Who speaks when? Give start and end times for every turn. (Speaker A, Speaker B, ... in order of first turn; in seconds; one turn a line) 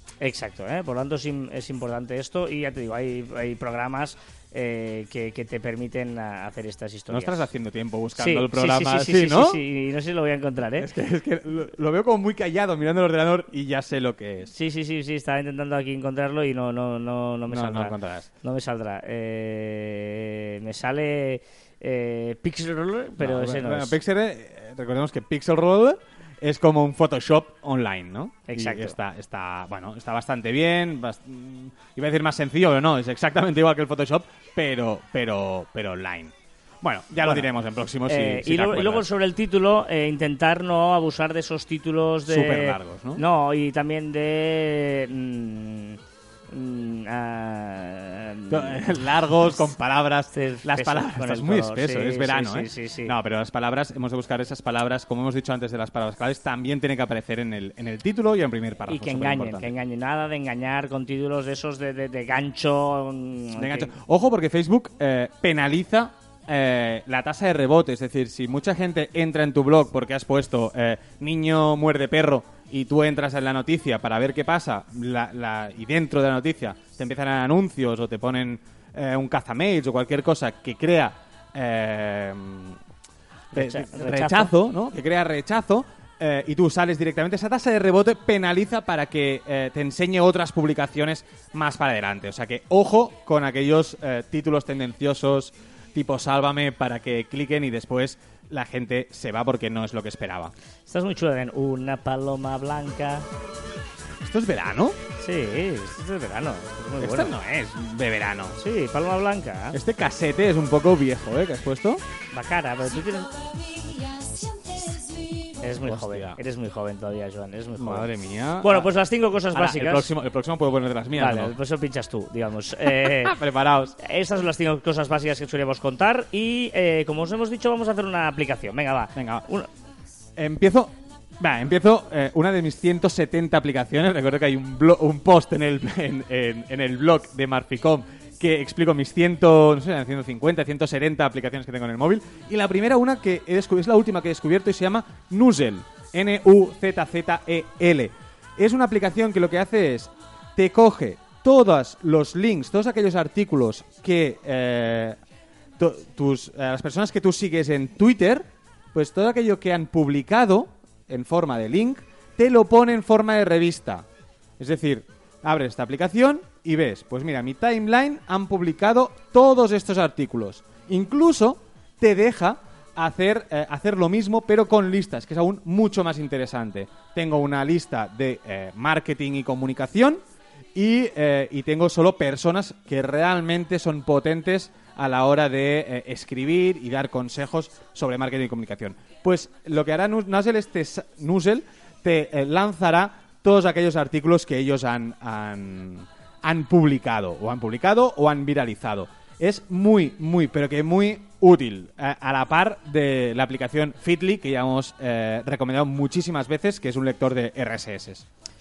Speaker A: 0.2-7.5
Speaker B: 7.1-9.6
Speaker A: 8.2-10.9
Speaker B: 10.8-14.5
Speaker A: 14.5-24.0
Speaker B: 17.5-18.3
Speaker B: 23.2-39.0
Speaker A: 28.5-29.0
Speaker A: 38.1-49.4
Speaker B: 42.3-43.2
Speaker B: 48.5-59.8
Speaker A: 50.3-53.1
Speaker A: 58.9-63.9
Speaker B: 63.6-82.8
Speaker A: 83.5-84.5
Speaker B: 83.5-100.5
Speaker A: 100.9-103.3
Speaker B: 104.2-105.0
Speaker A: 105.2-107.3
Speaker B: 107.0-108.6
Speaker A: 108.6-109.8
Speaker B: 109.7-112.0
Speaker A: 112.3-113.4
Speaker A: 115.6-118.1
Speaker B: 115.8-116.4
Speaker B: 117.8-118.9
Speaker A: 118.6-120.1
Speaker B: 119.5-121.5
Speaker A: 121.2-123.4
Speaker B: 122.9-123.9
Speaker A: 124.0-129.7
Speaker B: 129.2-129.4
Speaker B: 130.4-155.2
Speaker B: 155.8-164.1
Speaker B: 164.6-180.2
Speaker B: 180.8-208.2